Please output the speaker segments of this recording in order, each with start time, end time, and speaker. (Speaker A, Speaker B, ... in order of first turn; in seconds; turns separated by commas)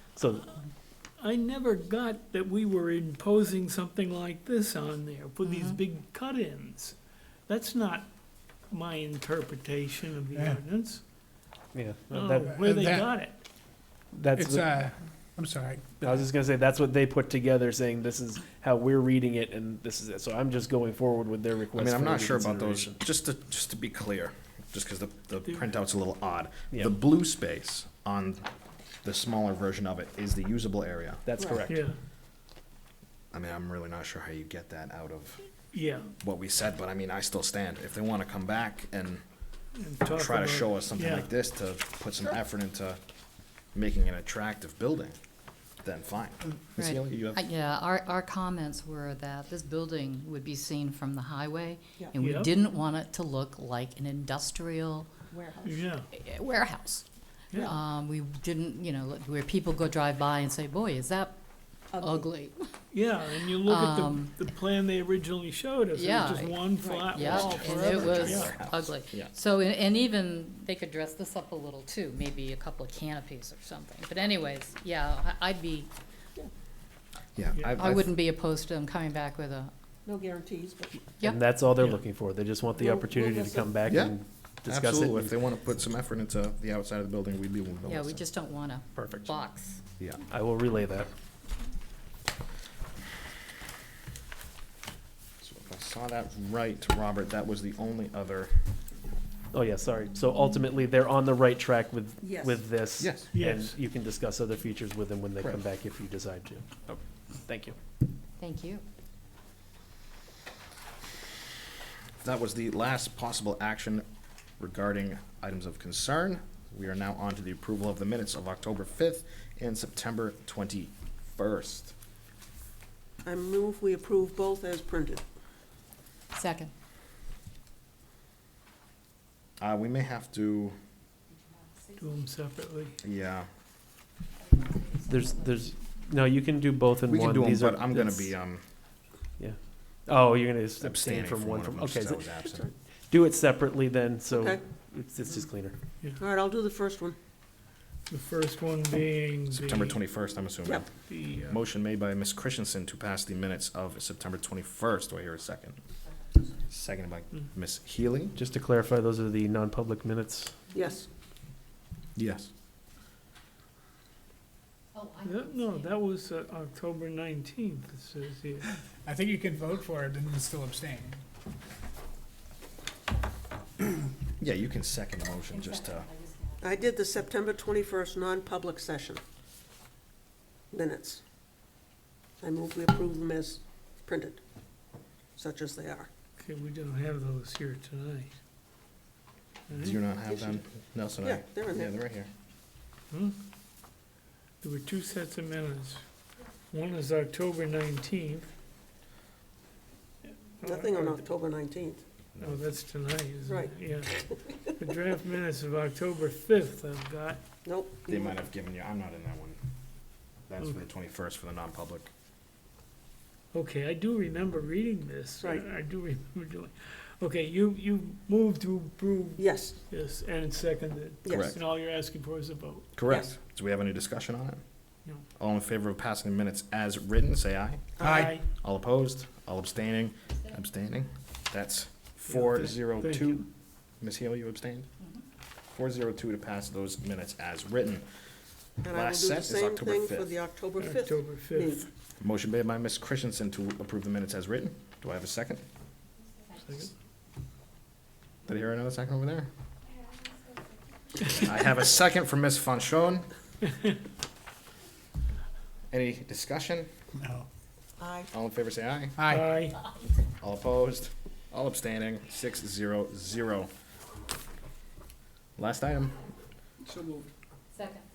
Speaker A: 0.1-0.6, Speaker B: 1.2-8.1, Speaker C: 5.4-5.8, Speaker B: 8.7-11.0, Speaker D: 10.3-10.6, Speaker A: 11.7-12.5, Speaker B: 12.1-13.4, Speaker D: 12.5-13.1, Speaker A: 14.1-14.8, Speaker D: 14.3-15.9, Speaker A: 16.0-22.9, Speaker E: 21.7-28.4, Speaker E: 29.0-31.2, Speaker A: 31.2-31.9, Speaker B: 31.7-31.9, Speaker E: 33.3-35.5, Speaker B: 35.7-36.1, Speaker E: 36.2-39.2, Speaker B: 39.8-41.3, Speaker E: 40.0-43.0, Speaker E: 43.7-45.1, Speaker E: 45.8-47.4, Speaker C: 46.8-55.1, Speaker B: 52.2-52.5, Speaker F: 55.3-56.0, Speaker B: 55.6-56.1, Speaker C: 56.1-57.0, Speaker C: 57.6-61.4, Speaker F: 61.9-62.3, Speaker C: 62.0-62.7, Speaker B: 62.9-68.5, Speaker C: 63.6-64.3, Speaker C: 65.9-75.9, Speaker F: 66.8-67.9, Speaker E: 67.2-69.3, Speaker E: 77.3-78.1, Speaker C: 77.8-79.7, Speaker F: 80.0-81.0, Speaker A: 81.2-85.3, Speaker F: 82.7-83.8, Speaker E: 83.9-88.2, Speaker C: 87.9-89.8, Speaker A: 89.0-89.3, Speaker A: 90.3-91.1, Speaker E: 95.4-98.5, Speaker A: 99.5-107.8, Speaker F: 102.2-102.6, Speaker E: 103.0-103.3, Speaker B: 103.3-103.8, Speaker C: 108.4-108.8, Speaker E: 112.2-114.0, Speaker E: 114.6-121.9, Speaker F: 123.2-125.2, Speaker C: 126.3-126.7, Speaker E: 129.6-130.8, Speaker B: 132.0-133.0, Speaker E: 133.0-133.5, Speaker C: 134.5-135.7, Speaker A: 135.1-138.3, Speaker E: 137.1-138.6, Speaker A: 139.4-142.3, Speaker E: 140.8-142.7, Speaker A: 143.1-145.8, Speaker F: 144.3-144.6, Speaker F: 146.2-147.2, Speaker B: 148.1-150.0, Speaker E: 149.5-155.8, Speaker B: 151.1-151.6, Speaker E: 156.7-158.3, Speaker A: 158.3-160.5, Speaker F: 160.7-161.1, Speaker E: 162.2-162.5, Speaker C: 164.9-165.9, Speaker B: 165.2-168.7, Speaker D: 169.0-171.2, Speaker E: 174.4-176.1, Speaker C: 175.5-176.9, Speaker F: 176.6-179.2, Speaker F: 180.7-181.2, Speaker F: 182.4-184.4, Speaker F: 185.3-186.1, Speaker B: 186.4-188.4, Speaker B: 189.7-190.0, Speaker E: 189.7-192.3, Speaker F: 190.3-190.6, Speaker F: 191.2-191.9, Speaker B: 193.1-193.4, Speaker B: 194.6-196.0, Speaker B: 196.7-198.5, Speaker B: 200.6-201.2, Speaker F: 200.6-202.0, Speaker E: 202.3-202.6, Speaker B: 202.4-207.4, Speaker F: 203.4-204.3, Speaker F: 207.6-208.4, Speaker E: 208.1-209.6, Speaker E: 210.5-212.1, Speaker B: 213.5-222.9, Speaker F: 219.4-219.8, Speaker F: 221.2-221.5, Speaker E: 221.3-221.6, Speaker E: 222.9-224.6, Speaker E: 225.3-233.4, Speaker F: 228.0-228.3, Speaker D: 228.0-228.4, Speaker B: 228.1-228.4, Speaker B: 232.3-233.4, Speaker E: 234.0-234.9, Speaker E: 235.7-238.1, Speaker F: 238.8-241.9, Speaker E: 238.9-240.3, Speaker B: 240.8-241.9, Speaker E: 242.2-245.6, Speaker B: 246.5-246.9, Speaker E: 248.4-249.5, Speaker E: 251.3-253.3, Speaker E: 255.9-256.9, Speaker D: 257.1-257.4, Speaker F: 258.0-258.3, Speaker E: 258.3-259.2, Speaker D: 259.1-259.5, Speaker B: 259.3-259.8, Speaker E: 260.4-263.7, Speaker E: 265.6-266.2, Speaker C: 267.7-268.0